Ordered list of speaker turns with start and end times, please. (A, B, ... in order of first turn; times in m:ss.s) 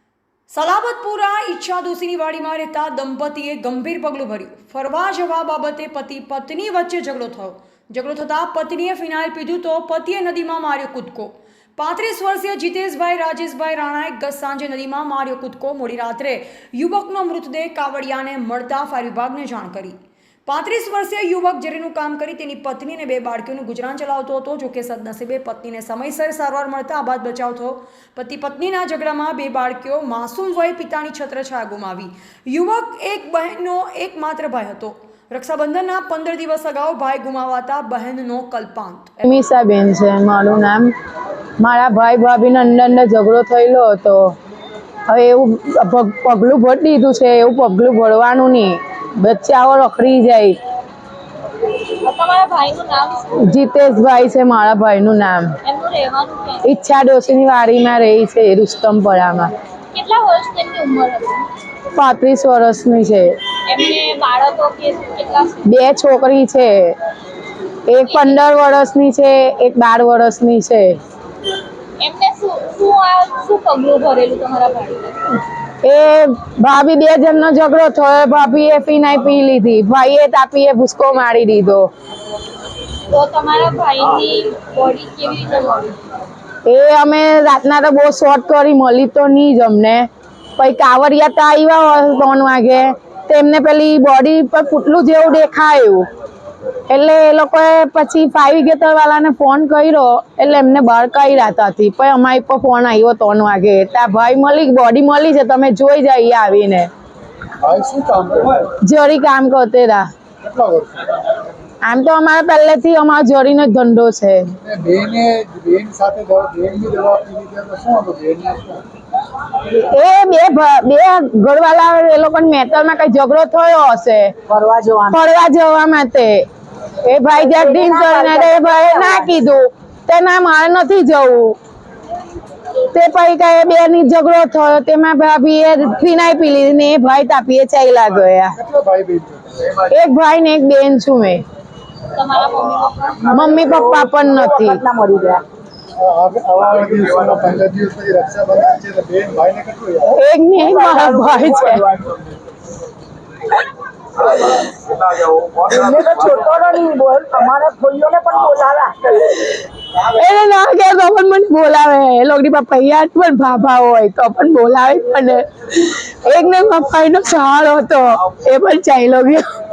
0:00.5-0:39.2 A
0:39.2-0:40.9 B
0:41.6-0:44.4 B
0:45.1-0:50.6 B
0:52.0-0:53.3 C
0:53.4-0:55.6 B
0:55.6-0:56.6 C
0:56.6-0:59.5 B
0:59.9-1:01.5 C
1:02.0-1:03.4 B
1:03.7-1:05.6 C
1:05.6-1:07.0 B
1:07.9-1:11.0 B
1:12.0-1:15.3 C
1:15.8-1:21.9 B
1:23.1-1:26.0 C
1:26.7-1:36.1 B
1:36.9-1:46.9 B
1:47.6-1:48.7 D
1:48.8-1:50.1 B
1:50.4-1:51.2 D
1:51.8-1:54.5 B
1:54.6-1:58.8 D
1:59.6-2:04.4 B
2:04.5-2:05.2 E
2:05.1-2:06.5 B
2:07.0-2:11.6 B
2:07.3-2:09.3 E
2:12.9-2:18.6 B
2:18.6-2:19.7 D
2:19.8-2:21.4 B
2:22.2-2:23.1 C
2:22.9-2:25.4 E
2:23.3-2:24.8 B
2:26.0-2:30.2 D
2:30.1-2:31.8 B
2:30.6-2:32.0 E
2:35.3-2:39.5 E
2:40.0-2:49.4 B